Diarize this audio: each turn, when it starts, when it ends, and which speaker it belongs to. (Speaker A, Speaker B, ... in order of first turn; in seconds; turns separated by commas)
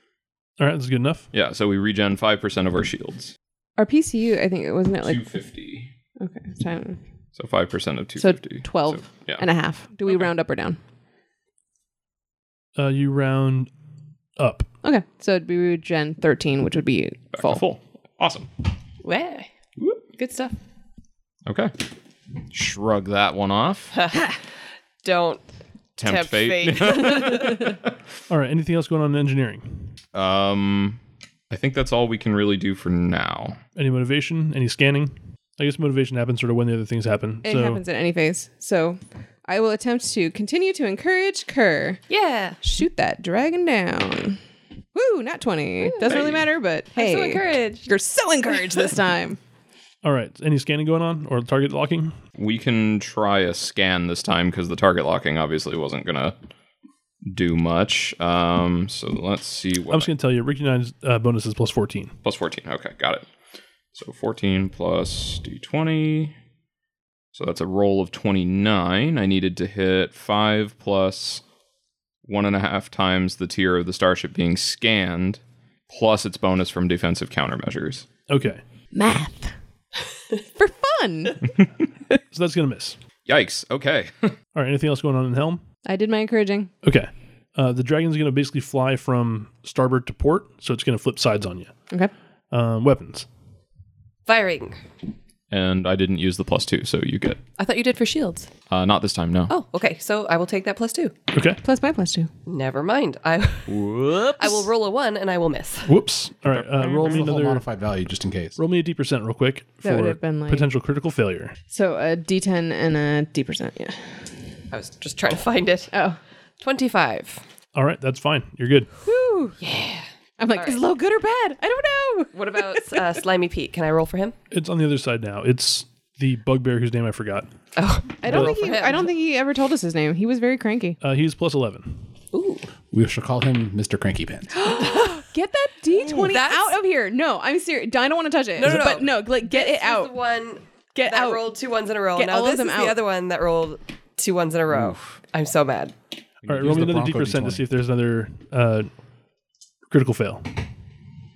Speaker A: 0.6-1.3, Speaker B: 1.3-3.3, Speaker C: 3.8-5.2, Speaker B: 5.0-5.9, Speaker C: 6.2-7.0, Speaker B: 7.4-9.4, Speaker C: 8.2-10.8, Speaker A: 12.8-13.7, Speaker A: 14.4-14.7, Speaker C: 14.8-17.6, Speaker B: 17.3-18.5, Speaker D: 19.0-19.5, Speaker D: 20.2-20.6, Speaker B: 21.5-21.7, Speaker B: 22.5-24.0, Speaker D: 23.9-24.4, Speaker D: 25.0-25.4, Speaker B: 26.0-27.8, Speaker D: 26.0-27.7, Speaker A: 28.3-29.9, Speaker B: 30.1-31.0, Speaker B: 31.5-33.6, Speaker A: 33.8-37.8, Speaker C: 37.4-42.0, Speaker D: 42.1-42.6, Speaker C: 42.6-44.4, Speaker C: 44.9-49.4, Speaker D: 45.8-46.4, Speaker B: 46.1-46.4, Speaker D: 47.0-47.9, Speaker A: 50.0-52.2, Speaker B: 52.4-56.4, Speaker B: 57.3-60.1, Speaker A: 59.9-62.1, Speaker B: 62.2-63.3, Speaker B: 63.9-66.3, Speaker B: 67.3-71.4, Speaker B: 72.2-78.1, Speaker A: 78.3-78.6, Speaker C: 78.9-79.5, Speaker C: 80.6-81.4, Speaker A: 82.3-83.0, Speaker B: 83.3-84.4, Speaker A: 84.5-85.6, Speaker C: 85.9-86.7, Speaker A: 86.8-91.7, Speaker A: 92.5-93.3, Speaker D: 94.3-94.8, Speaker B: 95.5-97.4, Speaker D: 97.6-98.5, Speaker B: 98.7-99.5, Speaker D: 99.5-101.2, Speaker A: 101.3-101.6, Speaker C: 101.6-102.3, Speaker D: 102.5-103.8, Speaker B: 103.7-104.7, Speaker D: 104.4-105.9, Speaker A: 105.8-107.6, Speaker B: 106.5-107.2, Speaker E: 106.8-108.6, Speaker A: 108.6-111.5, Speaker C: 109.8-110.7, Speaker C: 111.7-114.2, Speaker D: 114.7-115.9, Speaker C: 115.9-116.2, Speaker D: 116.6-117.4, Speaker A: 117.8-118.9, Speaker C: 119.0-119.6, Speaker D: 119.6-120.8, Speaker C: 120.4-123.0, Speaker D: 122.3-124.4, Speaker A: 124.5-127.5, Speaker D: 127.8-129.1, Speaker C: 128.2-131.0, Speaker A: 128.3-128.6, Speaker A: 131.0-132.0, Speaker D: 132.3-132.7, Speaker E: 132.9-134.5, Speaker C: 134.6-140.1, Speaker D: 134.7-135.2, Speaker D: 135.9-136.8, Speaker D: 138.6-145.9, Speaker A: 138.7-138.9, Speaker C: 140.9-141.5, Speaker C: 142.2-143.0, Speaker B: 146.4-146.8, Speaker A: 146.5-148.9, Speaker E: 146.5-147.7, Speaker A: 149.9-150.5